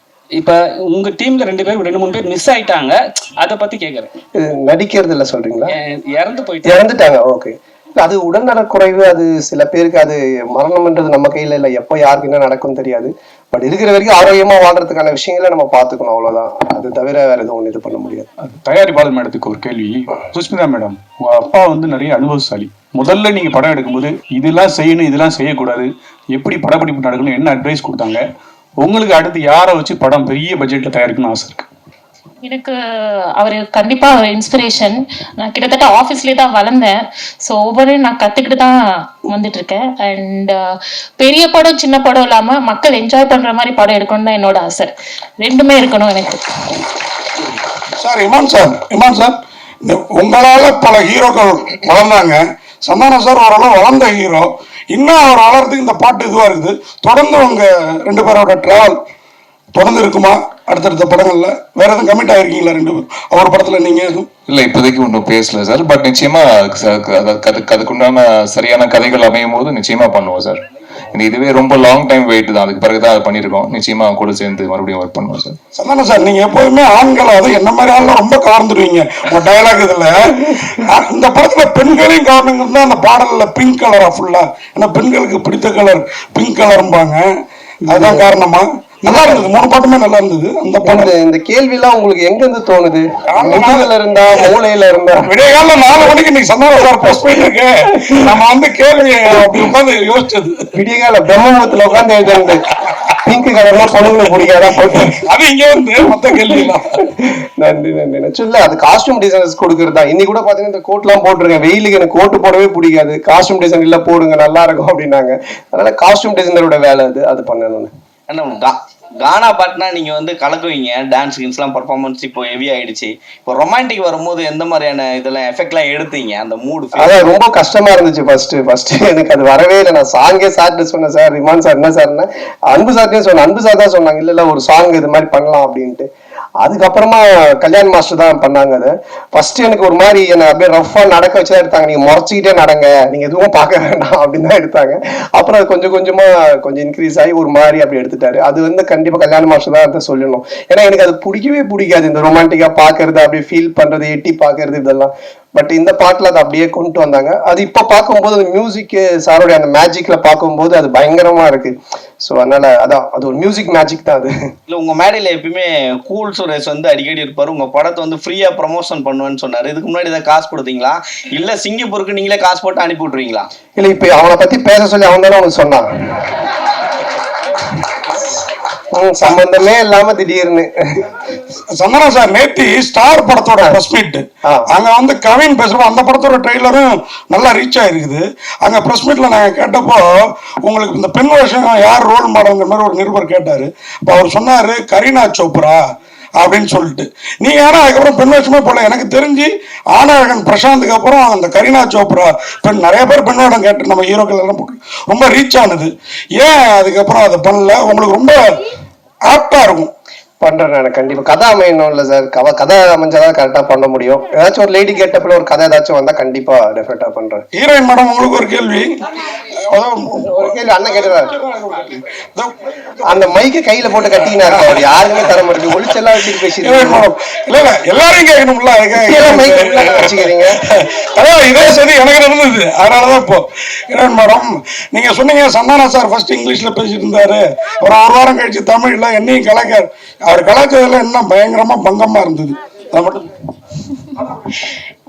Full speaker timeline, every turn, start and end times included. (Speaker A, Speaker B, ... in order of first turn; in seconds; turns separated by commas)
Speaker A: 0.3-4.1, Speaker B: 4.4-5.7, Speaker A: 5.7-6.8, Speaker B: 6.7-18.3, Speaker C: 18.4-28.2, Speaker C: 28.8-31.7, Speaker D: 32.4-32.8, Speaker D: 33.4-46.4, Speaker E: 48.0-59.0, Speaker E: 59.7-64.3, Speaker F: 64.5-70.6, Speaker F: 71.1-75.6, Speaker E: 75.7-87.2, Speaker B: 87.9-88.3, Speaker E: 87.9-91.1, Speaker B: 89.0-89.5, Speaker B: 90.8-95.3, Speaker E: 93.3-93.9, Speaker E: 95.2-100.7, Speaker B: 98.0-98.4, Speaker B: 100.8-102.6, Speaker B: 103.2-105.1, Speaker E: 105.0-106.9, Speaker B: 107.2-117.9, Speaker G: 118.3-127.3, Speaker B: 127.0-136.1, Speaker B: 136.6-164.3, Speaker G: 164.7-173.5, Speaker B: 173.8-175.8, Speaker B: 178.9-181.1, Speaker E: 181.8-195.8, Speaker E: 196.4-208.4, Speaker E: 209.3-209.9, Speaker B: 210.4-217.4, Speaker E: 217.5-218.9, Speaker E: 219.6-223.3, Speaker B: 220.2-221.3, Speaker B: 223.1-227.1, Speaker E: 224.4-224.7, Speaker E: 226.7-229.9, Speaker B: 228.9-230.6, Speaker E: 230.7-243.3